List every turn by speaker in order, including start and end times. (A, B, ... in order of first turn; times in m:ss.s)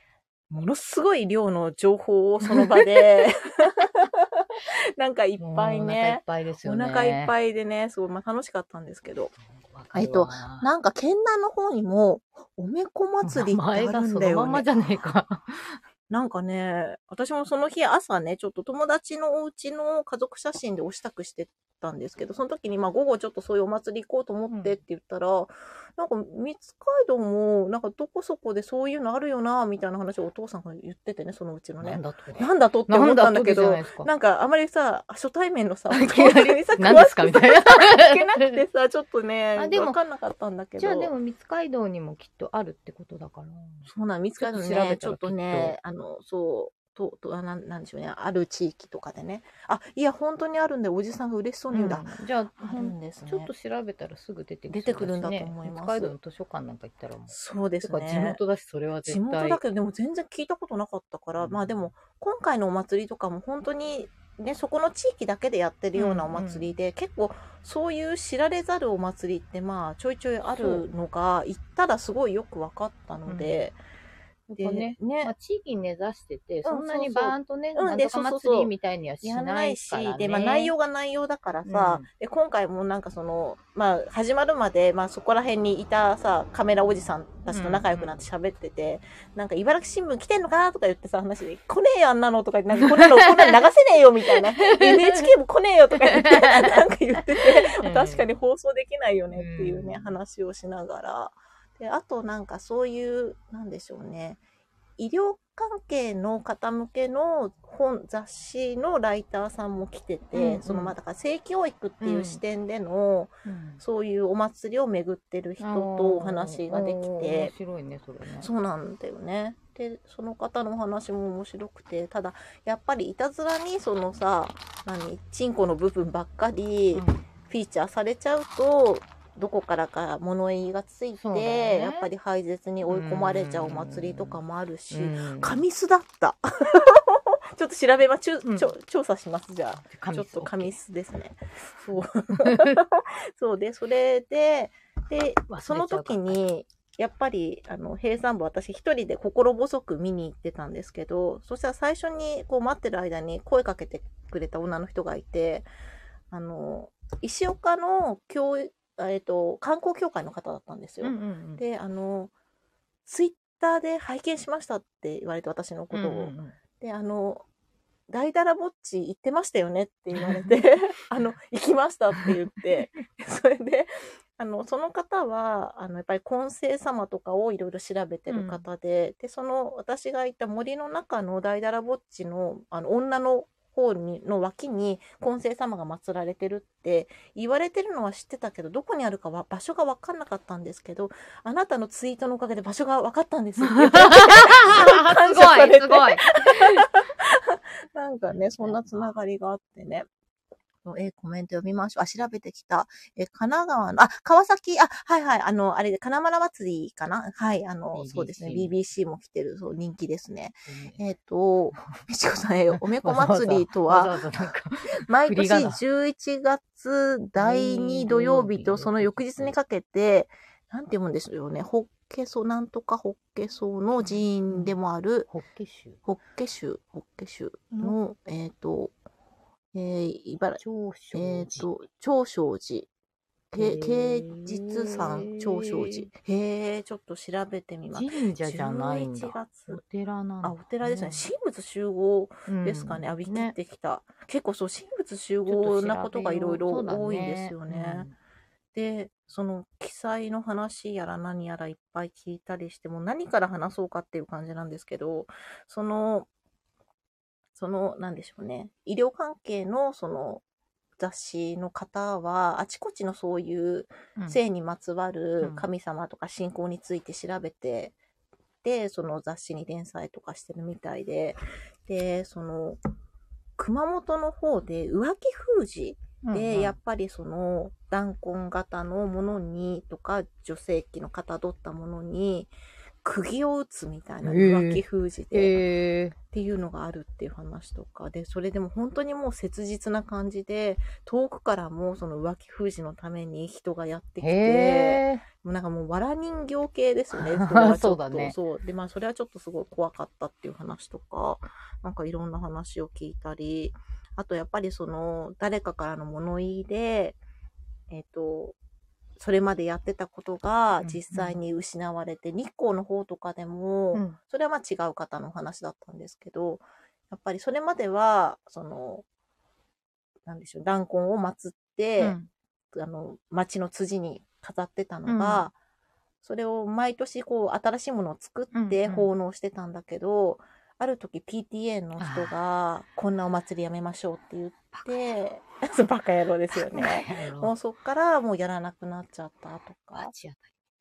0:00.5-0:09.3 A
0:02.4-0:02.8 B
0:05.4-0:07.3 B
0:09.5-0:10.7 B
0:09.9-0:14.7 A
0:13.2-0:15.8 B
0:16.1-0:41.1 A
0:24.5-0:24.8 B
0:31.8-0:34.1 B
0:35.9-0:38.6 B
0:39.6-0:40.0 B
0:40.8-0:45.8 B
0:43.8-0:52.1 A
0:51.7-0:59.6 B
0:52.6-0:53.5 A
0:54.7-0:56.1 A
0:57.3-0:58.4 A
0:59.0-1:13.8 A
1:01.4-1:01.8 B
1:05.9-1:06.8 B
1:10.5-1:10.8 B
1:13.2-1:13.7 B
1:14.5-1:20.7 B
1:14.6-1:15.3 A
1:16.6-1:18.7 A
1:19.2-1:44.4 A
1:21.6-1:22.1 B
1:27.5-1:28.2 B
1:32.8-1:33.6 B
1:34.3-1:35.3 B
1:36.0-1:36.8 B
1:37.3-1:38.3 B
1:39.3-1:40.2 B
1:45.0-1:57.5 A
1:50.3-1:50.9 B
1:52.0-1:52.4 B
1:53.4-1:53.8 B
1:55.6-1:58.5 B
1:58.4-2:35.7 A
2:06.9-2:07.3 B
2:11.1-2:12.1 B
2:12.8-2:15.6 B
2:18.4-2:18.7 B
2:19.8-2:20.8 B
2:22.4-2:22.8 B
2:25.5-2:26.4 B
2:36.3-2:42.3 A
2:41.0-2:41.6 B
2:43.0-2:47.4 A
2:45.9-2:46.6 B
2:48.1-3:20.1 A
2:50.2-2:50.5 B
2:52.1-2:52.9 B
2:58.3-2:58.6 B
3:13.6-3:16.8 B
3:18.3-3:19.2 B
3:20.8-3:34.2 A
3:27.9-3:28.7 B
3:30.7-3:31.0 B
3:32.7-3:35.8 B
3:35.0-3:45.3 A
3:37.4-3:39.6 B
3:44.0-3:44.8 B
3:45.3-3:46.0 B
3:46.0-3:48.9 A
3:49.7-3:52.9 A
3:50.6-3:51.7 B
3:53.5-3:59.8 A
3:53.6-3:56.1 B
3:57.9-4:01.3 B
4:00.4-4:08.1 A
4:02.5-4:03.5 B
4:05.4-4:08.1 B
4:08.7-4:16.3 A
4:17.5-4:20.4 A
4:21.0-4:27.9 A
4:25.4-4:25.7 B
4:28.6-4:32.8 A
4:33.6-4:45.6 A
4:36.2-4:36.8 B
4:44.2-4:46.2 B
4:46.3-5:07.2 A
4:54.2-4:55.2 B
4:57.1-4:58.4 B
5:07.9-5:08.6 A
5:09.2-5:19.0 A
5:10.8-5:11.4 B
5:13.9-5:14.2 B
5:20.2-5:22.2 A
5:22.0-5:22.3 B
5:22.7-5:25.5 A
5:25.0-5:25.5 B
5:26.2-5:40.1 A
5:28.5-5:29.1 B
5:32.0-5:32.3 B
5:36.5-5:37.5 B
5:40.0-5:40.5 B